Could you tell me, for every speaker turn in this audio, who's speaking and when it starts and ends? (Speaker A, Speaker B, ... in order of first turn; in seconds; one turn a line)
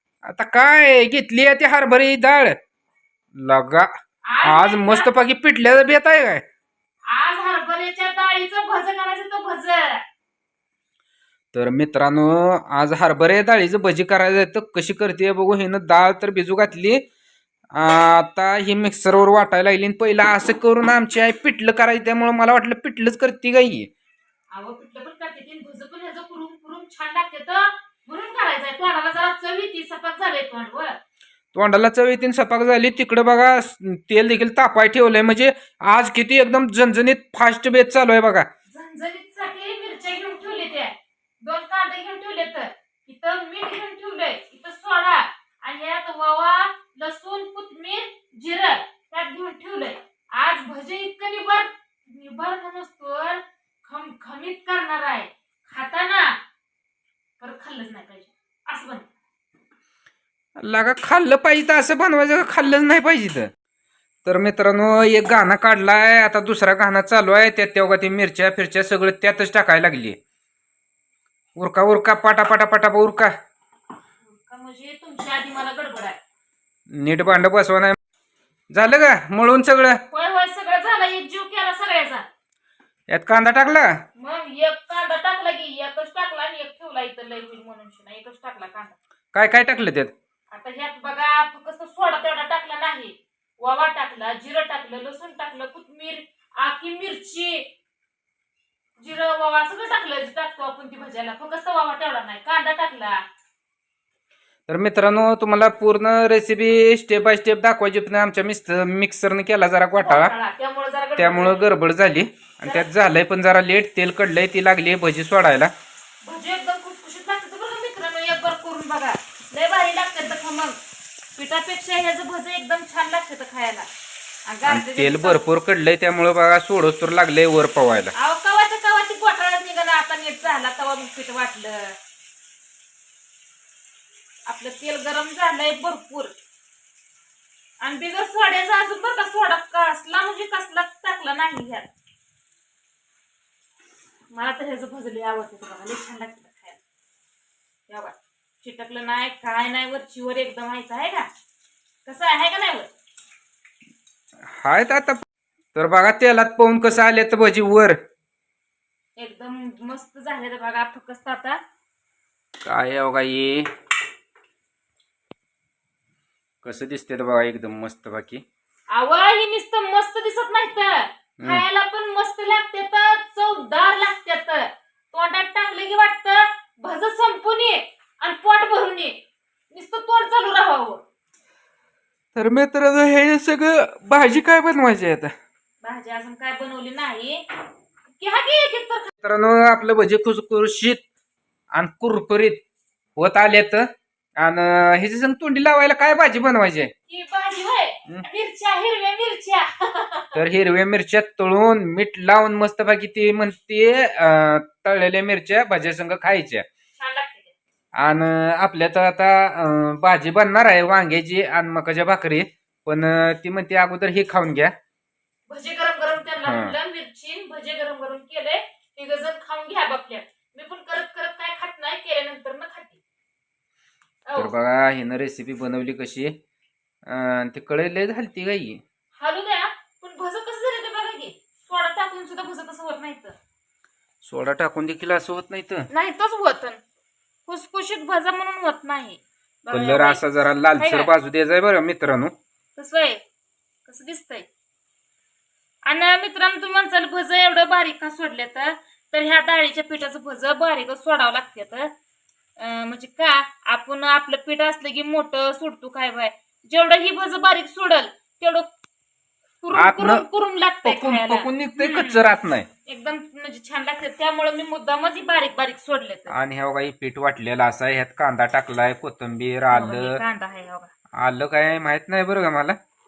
Speaker A: 0.2-2.6
Speaker A: 3.4-3.9
Speaker B: 4.3-5.1
Speaker A: 4.4-6.4
Speaker B: 7.1-10.0
Speaker A: 11.5-17.0
Speaker A: 17.8-23.9
Speaker B: 24.5-31.0
Speaker A: 31.5-38.5
Speaker B: 38.7-56.4
Speaker B: 57.4-59.0
Speaker A: 60.6-63.5
Speaker A: 64.2-70.2
Speaker A: 71.6-73.3
Speaker B: 74.2-76.2
Speaker A: 76.9-78.0
Speaker A: 78.7-80.0
Speaker B: 80.1-82.2
Speaker A: 83.1-83.9
Speaker B: 84.2-89.0
Speaker A: 89.3-90.1
Speaker B: 90.5-97.7
Speaker B: 99.0-103.2
Speaker A: 104.7-110.3
Speaker B: 110.0-111.7
Speaker A: 111.2-115.7
Speaker B: 116.2-120.8
Speaker B: 121.3-123.9
Speaker B: 124.5-125.4
Speaker A: 124.7-128.1
Speaker B: 128.2-132.0
Speaker B: 134.5-136.3
Speaker B: 137.8-141.9
Speaker B: 144.3-146.8
Speaker B: 147.9-151.3
Speaker B: 152.1-152.9
Speaker A: 154.5-155.2
Speaker A: 155.8-158.0
Speaker B: 159.2-161.6
Speaker A: 162.6-163.7
Speaker A: 166.6-168.4
Speaker B: 168.9-179.2
Speaker A: 171.4-171.7
Speaker B: 179.7-181.0
Speaker A: 182.3-185.3
Speaker B: 185.8-187.4
Speaker B: 188.2-189.1
Speaker A: 189.2-191.0
Speaker A: 191.7-192.6
Speaker A: 193.2-193.9
Speaker A: 194.4-196.9
Speaker B: 197.1-200.4
Speaker A: 200.4-206.7
Speaker B: 206.9-207.5
Speaker A: 207.9-214.7
Speaker B: 215.5-223.0
Speaker A: 216.4-216.8
Speaker B: 224.3-224.6
Speaker A: 224.3-226.3
Speaker A: 227.1-228.8
Speaker B: 229.2-233.3
Speaker A: 234.2-235.9
Speaker B: 235.9-236.8
Speaker B: 237.5-240.2
Speaker A: 239.7-242.3
Speaker B: 240.8-241.1
Speaker B: 242.8-243.2
Speaker B: 243.9-244.5
Speaker B: 245.9-251.9
Speaker B: 252.6-258.7
Speaker B: 259.6-262.2
Speaker A: 259.8-260.2
Speaker A: 260.8-262.7
Speaker B: 262.9-266.3
Speaker A: 266.3-270.2
Speaker B: 269.7-270.9
Speaker A: 271.2-272.8